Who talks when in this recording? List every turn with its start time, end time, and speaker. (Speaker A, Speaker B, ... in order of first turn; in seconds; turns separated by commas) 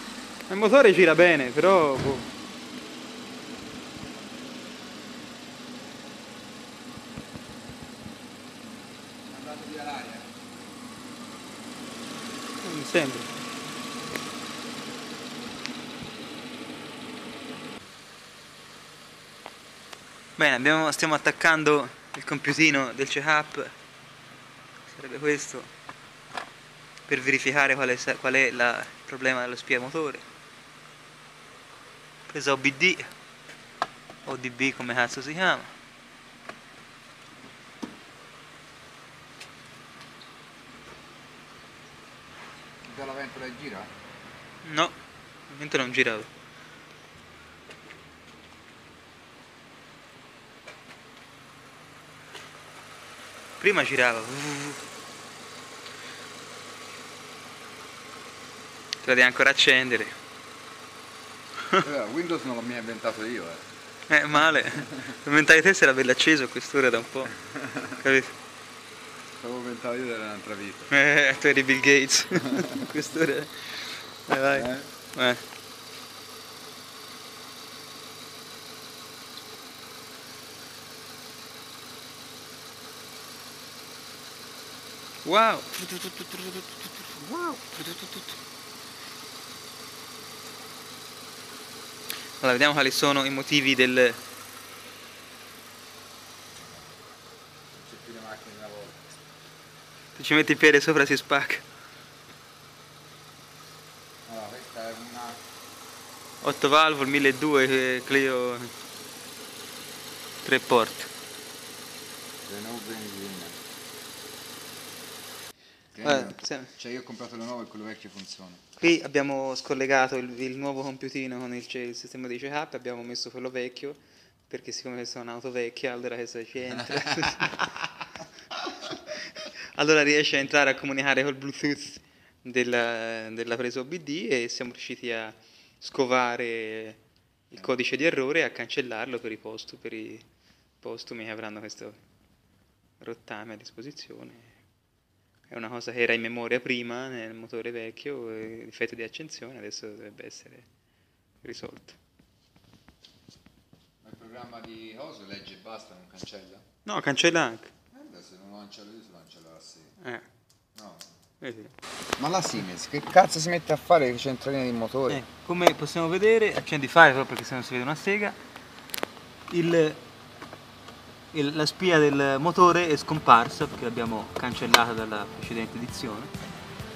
Speaker A: 0.5-2.3, Speaker B: 9.3-10.3, Speaker A: 12.6-13.3, Speaker A: 20.4-23.7, Speaker A: 24.9-25.7, Speaker A: 27.1-30.2, Speaker A: 32.3-33.1, Speaker A: 34.2-35.7, Speaker B: 42.8-43.9, Speaker A: 44.6-44.9, Speaker A: 45.5-46.3, Speaker A: 53.6-54.8, Speaker A: 59.0-60.1, Speaker B: 61.7-63.6, Speaker A: 64.1-68.3, Speaker B: 69.4-70.9, Speaker A: 70.9-75.4, Speaker B: 74.5-74.9, Speaker A: 85.2-88.3, Speaker A: 92.4-94.2, Speaker B: 96.5-97.1, Speaker B: 97.7-99.1, Speaker A: 100.2-101.6, Speaker B: 104.2-105.4, Speaker A: 106.4-108.7, Speaker A: 110.4-111.1, Speaker B: 112.5-113.6, Speaker B: 115.9-118.6, Speaker A: 116.0-116.7, Speaker A: 118.8-124.0, Speaker A: 124.5-127.7, Speaker B: 127.2-127.5, Speaker A: 128.9-137.0, Speaker A: 137.5-140.2, Speaker A: 140.8-142.0, Speaker A: 143.0-144.5, Speaker A: 145.5-150.7, Speaker A: 151.4-152.0, Speaker B: 154.0-156.6, Speaker A: 156.8-157.7, Speaker B: 157.9-159.9, Speaker B: 160.7-161.1, Speaker A: 161.4-161.7, Speaker B: 162.2-165.2, Speaker A: 165.1-168.3, Speaker A: 169.5-170.0, Speaker A: 171.3-176.3